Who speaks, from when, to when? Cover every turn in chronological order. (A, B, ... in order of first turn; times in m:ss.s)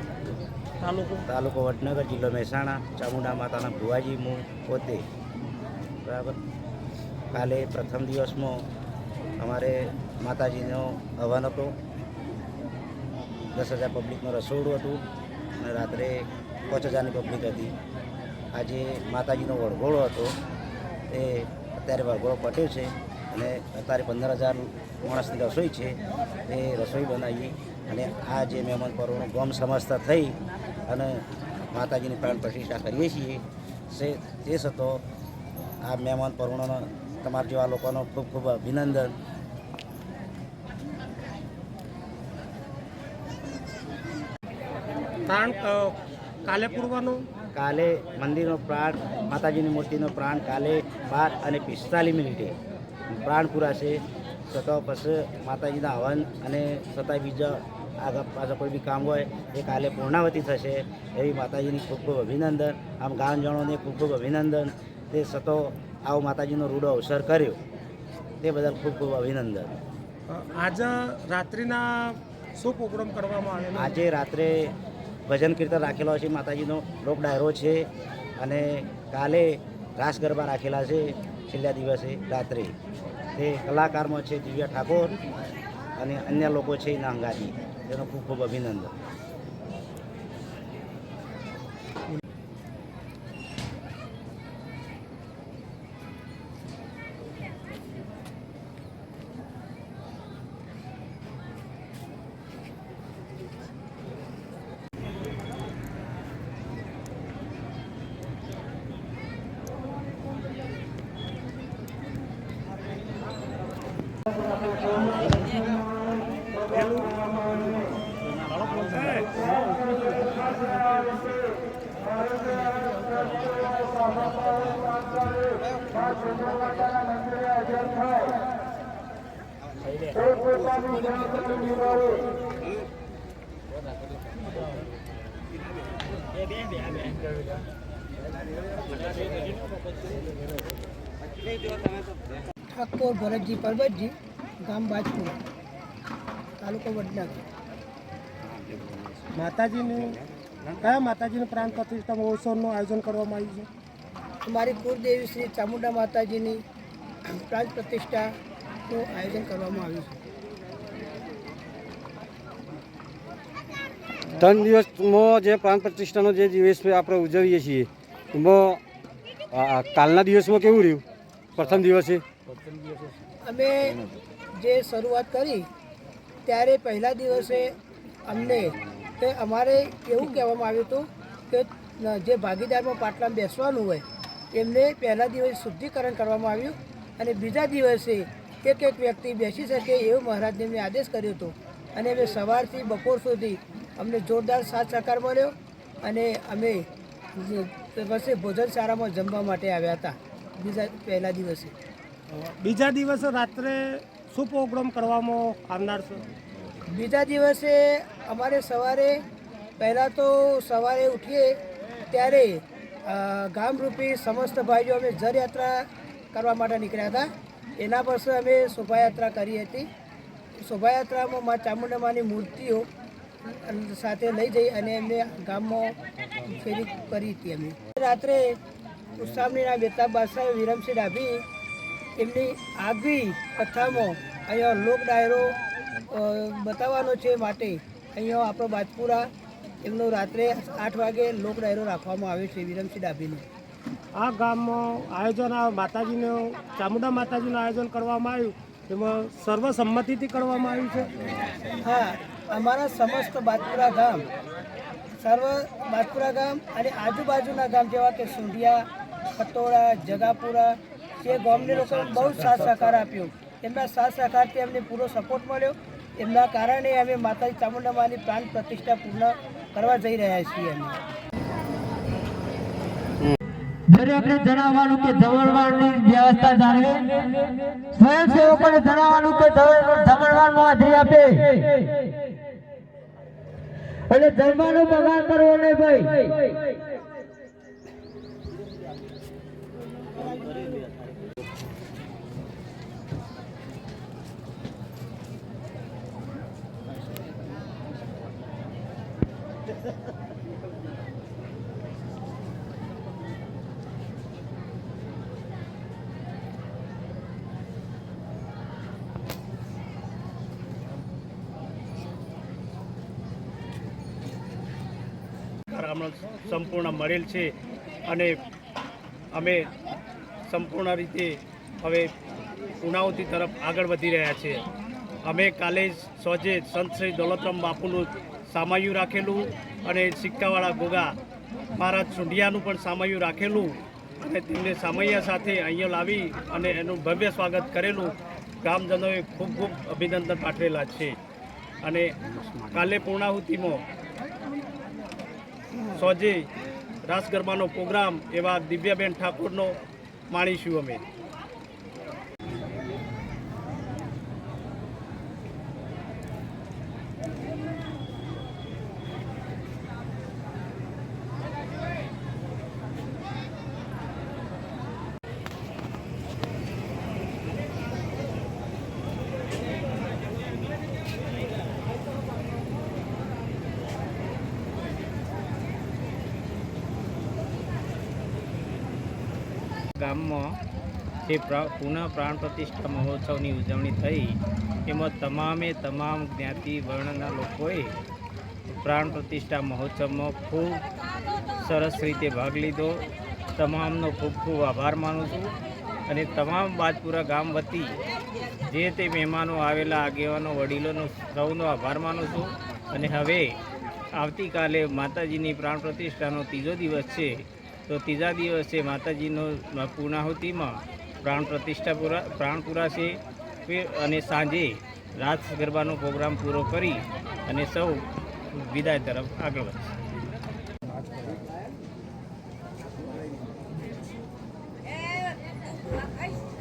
0:00.8-0:01.2 A
0:01.3-0:05.0 B
0:06.0-0:06.4 B
0:07.3-0:08.6 B
0:09.4-0:11.7 B
0:13.5-0:15.0 B
0:15.6-0:17.7 B
0:18.5-0:20.3 B
0:21.1-0:35.0 B
0:35.8-0:39.1 B
0:45.3-0:47.2 A
0:47.5-0:52.6 B
0:53.1-1:07.6 B
1:08.4-1:09.7 B
1:10.3-1:13.9 A
1:13.8-1:14.7 B
1:15.3-1:22.7 B
1:23.3-1:25.2 B
1:26.0-1:28.9 B
1:58.6-1:59.1 B
2:22.7-2:25.3 C
2:26.6-2:27.4 C
2:29.3-2:30.1 A
2:30.7-2:33.7 A
2:34.4-2:36.6 C
2:37.3-2:38.3 C
2:38.9-2:40.1 C
2:44.4-2:48.8 D
2:49.5-2:51.0 D
2:51.6-2:52.2 D
2:53.4-2:54.0 C
2:54.6-2:55.7 C
2:56.4-2:57.7 C
2:58.3-3:16.8 C
3:17.4-3:21.7 C
3:22.3-3:26.2 A
3:26.9-3:29.2 C
3:29.8-3:31.5 C
3:32.1-3:39.9 C
3:40.6-3:42.8 C
3:43.5-3:46.0 C
3:46.5-3:48.5 C
3:49.2-3:51.4 C
3:52.2-3:55.6 C
3:56.1-3:59.3 C
3:59.8-4:03.4 C
4:04.2-4:11.3 A
4:11.8-4:14.2 C
4:15.2-4:18.8 C
4:19.4-4:31.0 C
4:22.2-4:22.5 E
4:33.9-4:41.9 F
4:44.1-4:46.5 F
5:15.7-5:17.5 E
5:18.1-5:18.4 E
5:19.3-5:19.7 E
5:20.5-5:22.1 E
5:22.8-5:24.6 E
5:25.2-5:31.2 E
5:31.8-5:41.2 E
5:41.8-5:42.1 E
5:42.7-5:43.8 E
5:45.9-5:46.5 E
5:47.1-5:49.8 E
5:50.3-5:51.0 E
6:20.0-6:20.6 G
6:21.2-6:24.3 G
6:24.9-6:27.9 G
6:28.7-6:30.8 G
6:31.5-6:35.5 G
6:36.1-6:38.0 G
6:38.6-6:43.6 G
6:44.1-7:00.0 G